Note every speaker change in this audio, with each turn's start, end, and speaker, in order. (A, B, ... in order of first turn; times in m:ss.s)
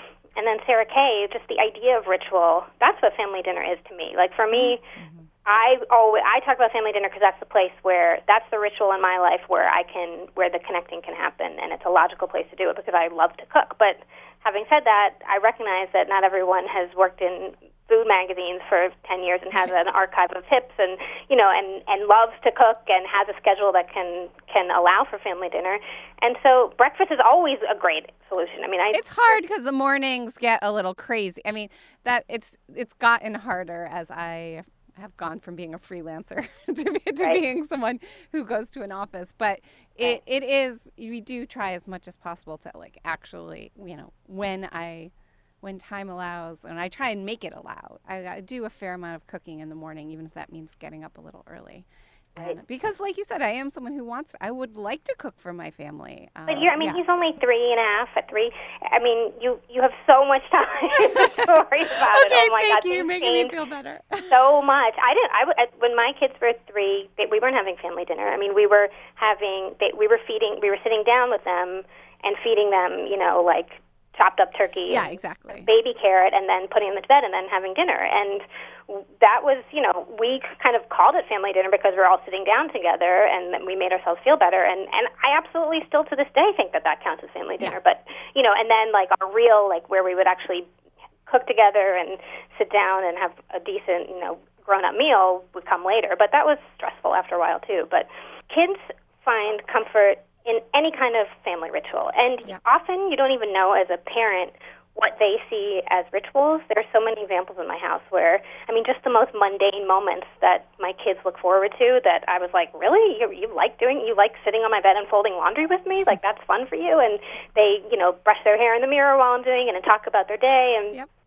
0:00.4-0:04.9 A
0:05.4-0:29.4 A
0:28.9-0:57.0 B
0:56.5-1:03.5 A
1:01.0-1:04.4 B
1:04.3-1:30.7 A
1:14.9-1:15.7 B
1:31.3-2:01.0 A